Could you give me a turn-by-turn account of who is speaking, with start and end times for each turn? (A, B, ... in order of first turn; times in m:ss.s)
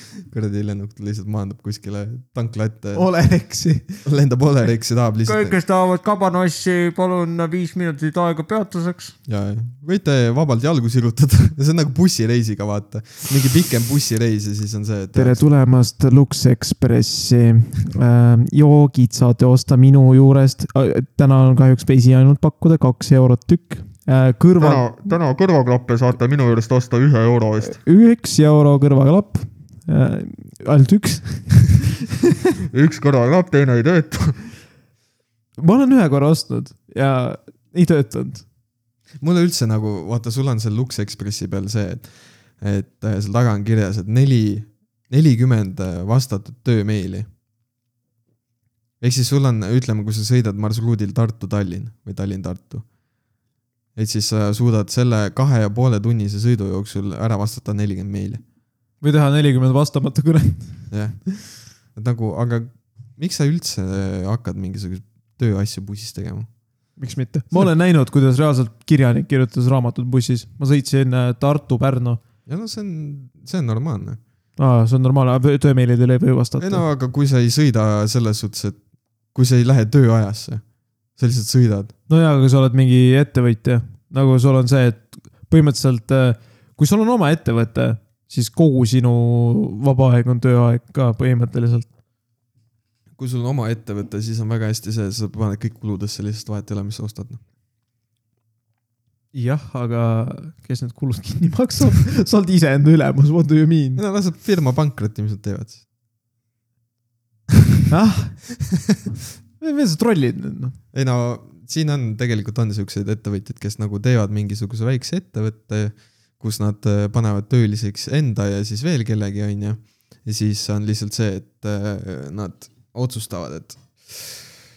0:00.3-0:03.1 A
0:02.9-0:04.0 B
0:04.0-0:05.6 A
0:05.3-0:09.2 B
0:09.3-0:15.4 A
0:15.2-0:25.2 B
0:24.6-0:27.8 A
0:27.6-0:31.9 B
0:32.7-0:34.5 A
0:35.6-0:38.4 B
0:39.2-0:47.3 A
0:49.0-0:52.9 A
0:54.0-0:58.4 A
0:59.0-1:00.9 B
1:00.9-1:01.2 A
1:01.8-1:06.5 A
1:07.0-1:12.2 B
1:12.5-1:14.2 A
1:14.6-1:16.8 B
1:16.6-1:18.8 A
1:19.3-1:20.6 A
1:21.2-1:21.9 A
1:22.1-1:31.9 B
1:33.2-1:37.4 A
1:39.3-1:44.0 B
1:44.0-1:45.8 A
1:47.9-1:48.6 B
1:49.6-1:50.8 B
1:50.9-2:04.5 A